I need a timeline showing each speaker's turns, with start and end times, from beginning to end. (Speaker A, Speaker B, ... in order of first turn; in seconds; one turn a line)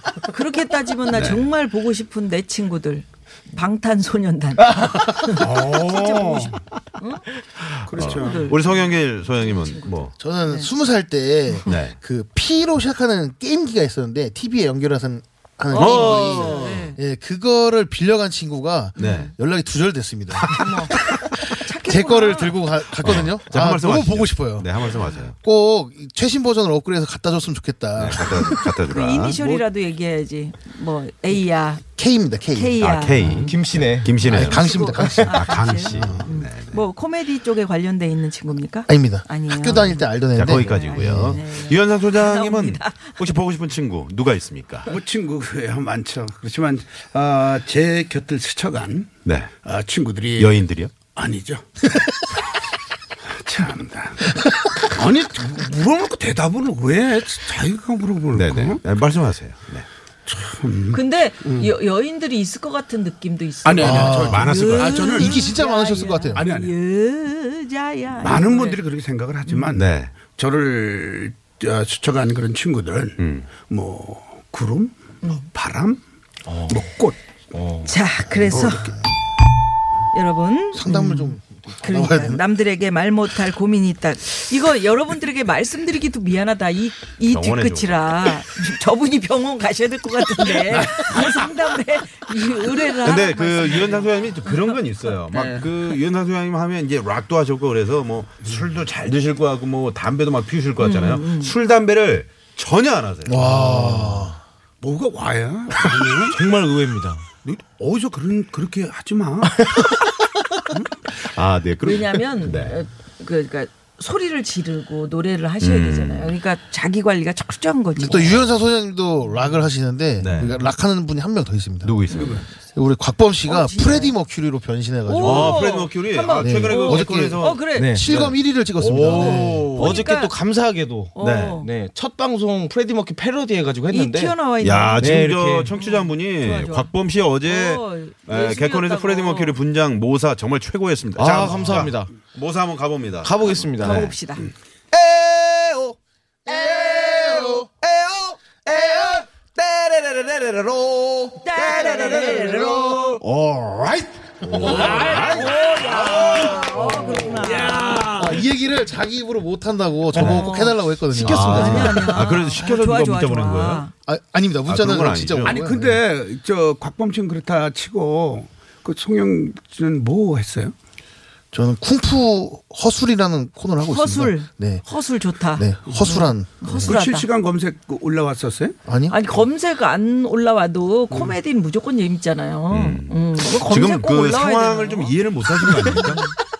Speaker A: 0.3-7.2
Speaker B: 1.1-1.4
Speaker C: 5.4-6.5
Speaker C: 7.8-8.5
Speaker A: 8.0-8.9
Speaker B: 8.0-10.1
Speaker A: 9.4-10.7
Speaker D: 10.2-28.7
Speaker B: 11.7-11.9
Speaker A: 15.7-17.0
Speaker B: 15.7-16.9
Speaker A: 19.0-19.3
Speaker B: 19.0-19.3
Speaker B: 20.3-21.1
Speaker A: 20.5-22.6
Speaker B: 23.0-25.4
Speaker B: 27.9-29.4
Speaker A: 28.7-31.8
Speaker D: 31.9-33.4
Speaker A: 32.5-33.5
Speaker B: 32.8-36.8
Speaker E: 33.5-34.2
Speaker D: 34.2-36.3
Speaker A: 34.3-43.3
Speaker D: 38.9-41.4
Speaker B: 40.3-44.9
Speaker C: 44.9-49.1
Speaker B: 49.2-49.5
Speaker C: 49.6-50.5
Speaker B: 50.4-50.9
Speaker C: 51.1-51.6
Speaker C: 53.4-58.8
Speaker B: 58.3-59.9
Speaker C: 60.2-61.7
Speaker A: 60.9-68.8
Speaker C: 63.6-65.6
Speaker D: 63.8-66.5
Speaker B: 64.4-64.9
Speaker C: 66.3-66.7
Speaker C: 68.2-76.0
Speaker B: 69.7-70.1
Speaker B: 73.2-73.5
Speaker E: 76.5-76.8
Speaker C: 76.7-77.2
Speaker E: 77.5-77.9
Speaker A: 77.8-78.9
Speaker C: 78.5-78.9
Speaker A: 80.1-94.8
Speaker D: 80.7-82.4
Speaker B: 87.3-88.3
Speaker B: 93.0-104.3
Speaker C: 95.3-95.7
Speaker A: 100.8-101.5
Speaker D: 103.2-104.4
Speaker C: 104.8-106.4
Speaker E: 106.3-107.2
Speaker C: 107.4-109.7
Speaker B: 111.2-112.8
Speaker A: 111.8-118.4
Speaker B: 115.6-116.3
Speaker D: 118.0-121.9
Speaker B: 120.2-120.6
Speaker B: 121.8-122.4
Speaker C: 122.1-122.4
Speaker D: 122.7-125.7
Speaker A: 123.5-124.1
Speaker A: 125.0-128.0
Speaker B: 125.2-130.0
Speaker D: 126.3-129.8
Speaker E: 127.7-128.1
Speaker A: 129.1-130.3
Speaker E: 129.7-134.3
Speaker A: 131.1-131.7
Speaker B: 131.2-131.6
Speaker A: 133.9-136.9
Speaker B: 134.6-144.1
Speaker E: 135.0-135.7
Speaker A: 137.4-139.5
Speaker E: 141.2-142.2
Speaker E: 143.2-144.1
Speaker A: 143.8-144.5
Speaker E: 144.9-154.0
Speaker D: 146.5-147.6
Speaker A: 151.4-152.9
Speaker B: 154.4-156.6
Speaker D: 154.7-154.9
Speaker A: 154.7-158.2
Speaker C: 154.7-158.4
Speaker D: 158.1-162.0
Speaker A: 160.1-163.9
Speaker B: 160.1-160.4
Speaker B: 161.2-163.8
Speaker E: 161.2-161.8
Speaker D: 164.1-166.0
Speaker B: 164.7-165.6
Speaker C: 165.4-170.7
Speaker D: 171.5-174.8
Speaker A: 173.8-177.3
Speaker D: 175.6-176.9
Speaker C: 176.8-178.8
Speaker D: 178.8-179.2
Speaker A: 179.1-186.3
Speaker B: 182.7-186.3